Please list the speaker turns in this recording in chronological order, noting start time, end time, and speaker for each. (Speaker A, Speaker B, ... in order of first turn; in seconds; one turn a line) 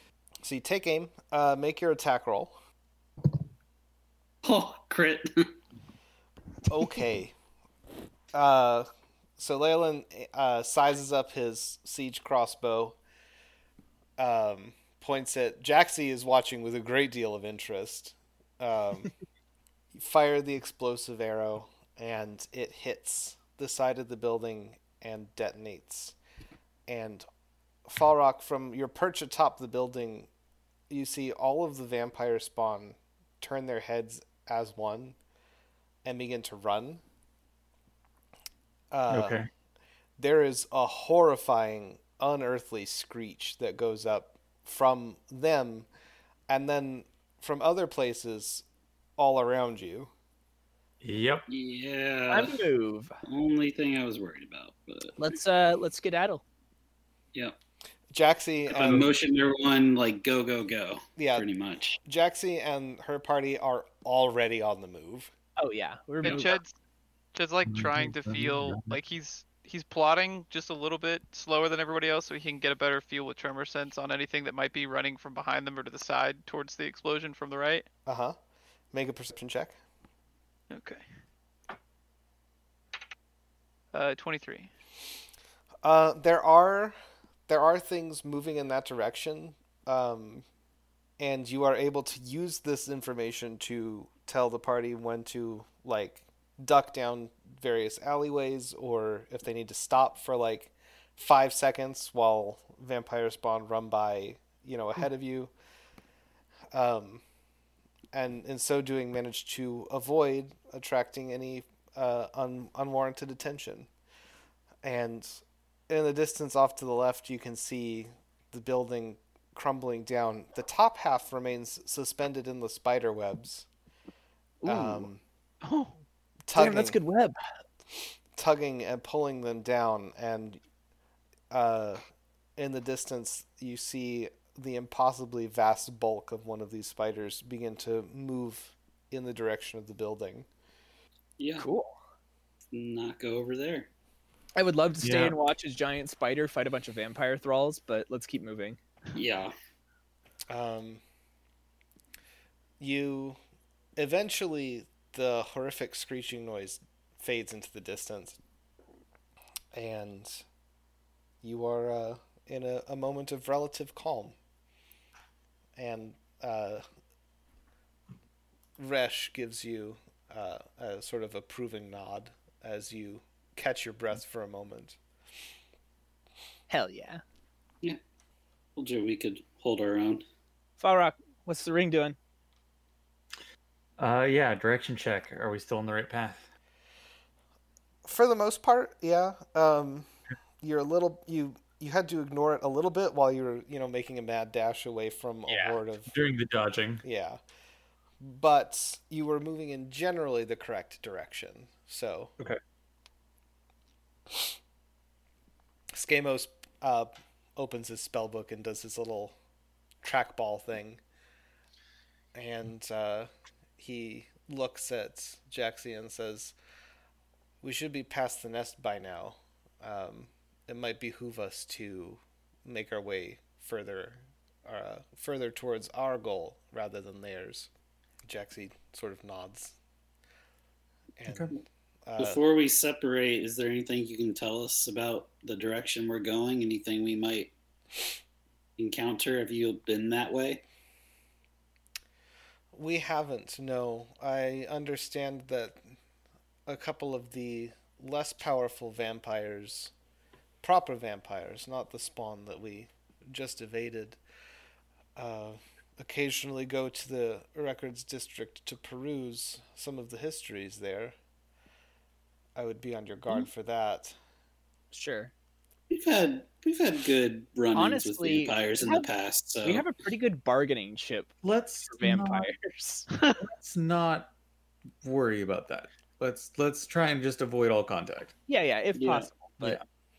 Speaker A: 0.4-2.5
Speaker B: 4.4-5.5
Speaker A: 6.7-7.3
Speaker A: 8.3-13.0
Speaker A: 14.2-19.1
Speaker A: 19.9-26.1
Speaker A: 26.9-27.2
Speaker A: 27.9-30.3
Speaker A: 30.9-35.2
Speaker A: 36.0-37.0
Speaker A: 38.9-39.4
Speaker C: 39.1-39.5
Speaker A: 40.2-45.9
Speaker A: 46.5-48.6
Speaker A: 49.2-50.1
Speaker C: 51.0-51.5
Speaker B: 51.5-52.6
Speaker D: 52.3-53.1
Speaker B: 53.2-55.2
Speaker D: 55.2-56.4
Speaker A: 58.1-59.1
Speaker B: 58.7-62.0
Speaker A: 61.2-61.5
Speaker A: 62.0-65.3
Speaker D: 65.6-66.5
Speaker E: 66.2-66.7
Speaker E: 67.3-77.8
Speaker C: 67.7-69.0
Speaker A: 78.0-78.4
Speaker A: 78.9-79.8
Speaker E: 80.7-81.0
Speaker E: 83.9-84.7
Speaker A: 85.8-87.0
Speaker A: 87.5-90.4
Speaker A: 91.2-105.5
Speaker A: 106.7-107.2
Speaker A: 108.1-113.9
Speaker A: 114.8-123.7
Speaker D: 124.6-125.1
Speaker A: 124.7-125.2
Speaker E: 125.6-125.9
Speaker A: 126.5-127.0
Speaker D: 126.5-127.3
Speaker A: 128.3-130.6
Speaker A: 131.5-132.0
Speaker A: 132.6-140.5
Speaker B: 141.4-141.7
Speaker D: 141.6-141.9
Speaker B: 142.7-143.9
Speaker D: 144.6-148.8
Speaker C: 145.0-145.3
Speaker B: 149.1-149.5
Speaker A: 150.5-151.0
Speaker A: 152.8-153.4
Speaker A: 153.9-158.4
Speaker A: 159.7-160.4
Speaker A: 161.4-164.3
Speaker A: 165.8-166.8
Speaker A: 168.8-175.0
Speaker D: 176.7-177.2
Speaker B: 178.8-180.2
Speaker D: 180.8-182.2
Speaker C: 184.0-186.4
Speaker A: 188.0-190.1
Speaker A: 190.6-196.1
Speaker C: 195.5-197.0
Speaker A: 197.0-197.4
Speaker A: 198.2-202.3
Speaker A: 205.9-209.3
Speaker A: 210.0-211.0
Speaker A: 212.3-216.5
Speaker A: 217.6-227.7
Speaker A: 228.2-229.8
Speaker A: 231.2-232.4
Speaker C: 231.3-231.5
Speaker B: 232.2-237.5
Speaker B: 238.8-240.6
Speaker A: 242.7-245.8
Speaker A: 246.7-249.9
Speaker A: 250.6-254.2
Speaker A: 255.2-261.1
Speaker A: 262.6-264.2
Speaker D: 264.9-265.3
Speaker B: 265.9-269.8
Speaker D: 267.7-269.1
Speaker D: 269.6-271.3
Speaker C: 271.4-272.5
Speaker D: 271.9-273.1
Speaker C: 273.4-274.3
Speaker C: 275.0-278.3
Speaker D: 278.5-279.8
Speaker B: 278.9-279.3
Speaker C: 279.6-279.8